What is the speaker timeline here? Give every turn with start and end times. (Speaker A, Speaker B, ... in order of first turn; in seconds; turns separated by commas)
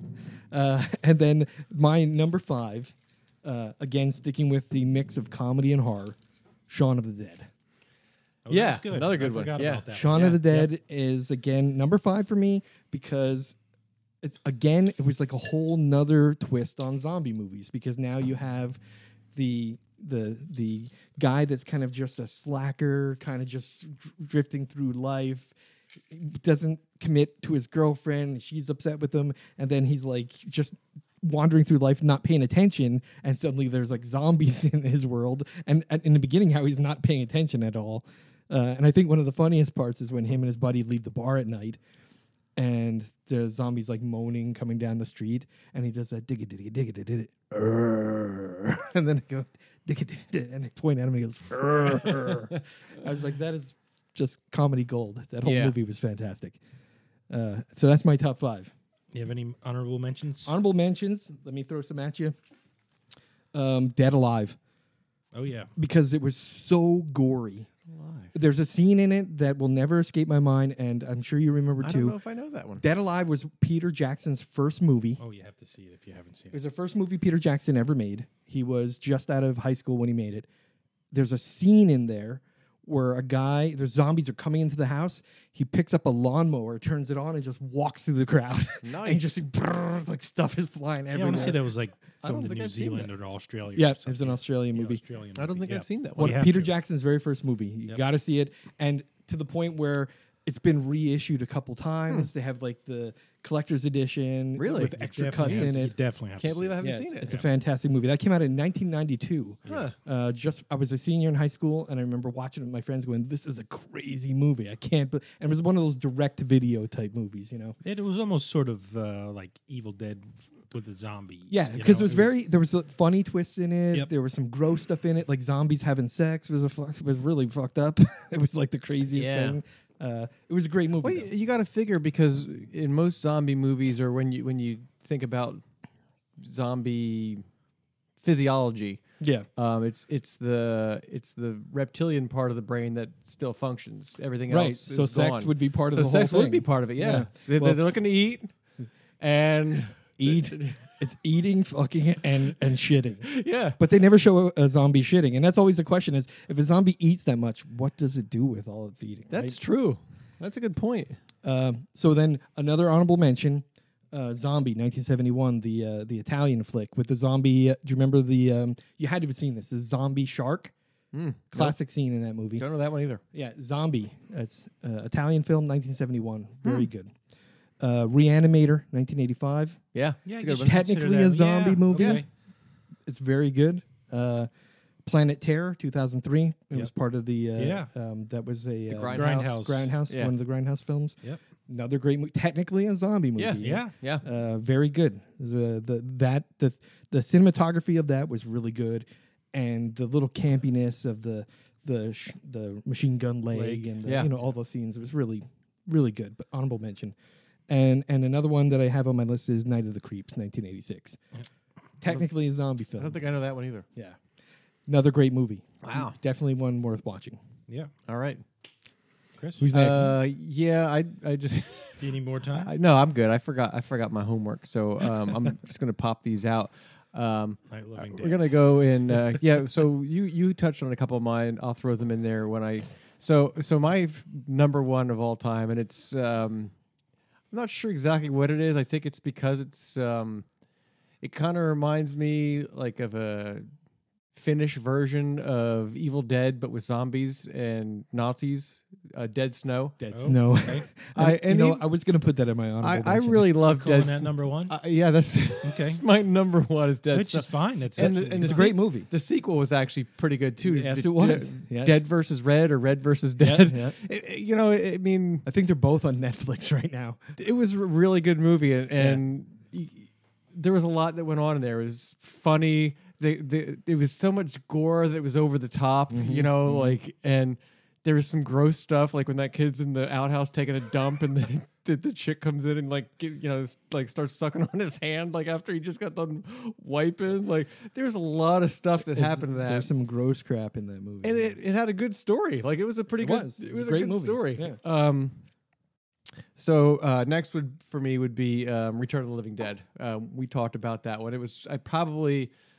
Speaker A: 0.5-6.2, Speaker A: 6.7-7.5, Speaker B: 8.4-10.7, Speaker C: 8.5-10.4, Speaker A: 9.9-13.6, Speaker A: 14.2-18.8, Speaker A: 19.3-25.5, Speaker A: 26.1-41.8, Speaker A: 42.5-56.6, Speaker C: 55.4-55.7, Speaker A: 57.3-58.7, Speaker B: 59.1-60.5, Speaker A: 60.5-62.3, Speaker A: 63.5-64.6, Speaker B: 65.3-65.7, Speaker A: 65.8-67.7, Speaker C: 67.9-68.3, Speaker A: 68.3-72.2, Speaker C: 71.8-72.8, Speaker A: 72.8-75.2, Speaker B: 75.2-76.6, Speaker A: 76.5-80.5, Speaker A: 81.1-91.6, Speaker C: 88.8-89.4, Speaker B: 91.1-96.7, Speaker C: 92.2-93.1, Speaker A: 93.7-95.0, Speaker C: 95.3-96.4, Speaker A: 96.2-105.9, Speaker C: 104.6-105.9, Speaker B: 104.9-107.5, Speaker C: 106.4-107.3, Speaker A: 106.8-117.8, Speaker C: 109.7-109.9, Speaker B: 117.8-122.3, Speaker A: 121.5-131.3, Speaker C: 129.1-129.6, Speaker C: 131.0-135.6, Speaker C: 136.4-137.4, Speaker C: 138.2-139.0, Speaker A: 139.2-139.4, Speaker C: 139.6-148.5, Speaker A: 144.5-147.8, Speaker C: 149.2-150.8, Speaker A: 150.2-159.5, Speaker C: 153.2-153.8, Speaker C: 159.3-161.2, Speaker A: 161.4-170.7, Speaker C: 171.1-171.8, Speaker A: 171.5-172.6, Speaker C: 172.6-173.2, Speaker A: 173.3-177.1, Speaker A: 177.8-179.8, Speaker C: 179.9-180.8, Speaker B: 180.2-182.3, Speaker A: 180.6-182.2, Speaker C: 181.9-182.2, Speaker A: 183.1-184.5, Speaker A: 185.0-207.2, Speaker B: 187.6-187.9, Speaker C: 188.9-189.5, Speaker B: 189.1-189.9, Speaker C: 193.4-194.2, Speaker B: 193.6-193.9, Speaker B: 203.5-203.9, Speaker C: 204.0-204.3, Speaker A: 207.7-211.2, Speaker A: 212.0-213.2, Speaker C: 213.0-213.8, Speaker A: 214.9-217.4, Speaker C: 215.8-216.1, Speaker C: 218.1-218.4, Speaker B: 219.3-219.7, Speaker A: 219.6-220.2, Speaker C: 219.7-236.7, Speaker B: 222.0-222.7, Speaker B: 227.7-229.4, Speaker C: 237.5-240.4, Speaker C: 241.2-243.7, Speaker C: 244.3-250.0, Speaker A: 250.0-253.5, Speaker B: 250.1-250.9, Speaker C: 251.1-251.8, Speaker C: 252.8-265.4, Speaker B: 253.6-254.7, Speaker B: 255.6-256.0, Speaker B: 257.1-258.7, Speaker A: 258.0-259.1, Speaker A: 260.6-262.0, Speaker A: 263.4-264.0, Speaker A: 265.4-267.2, Speaker C: 267.4-289.9, Speaker A: 269.0-269.2, Speaker A: 276.1-277.0, Speaker A: 289.0-291.6, Speaker C: 291.2-295.4, Speaker A: 293.2-294.8, Speaker C: 296.6-302.5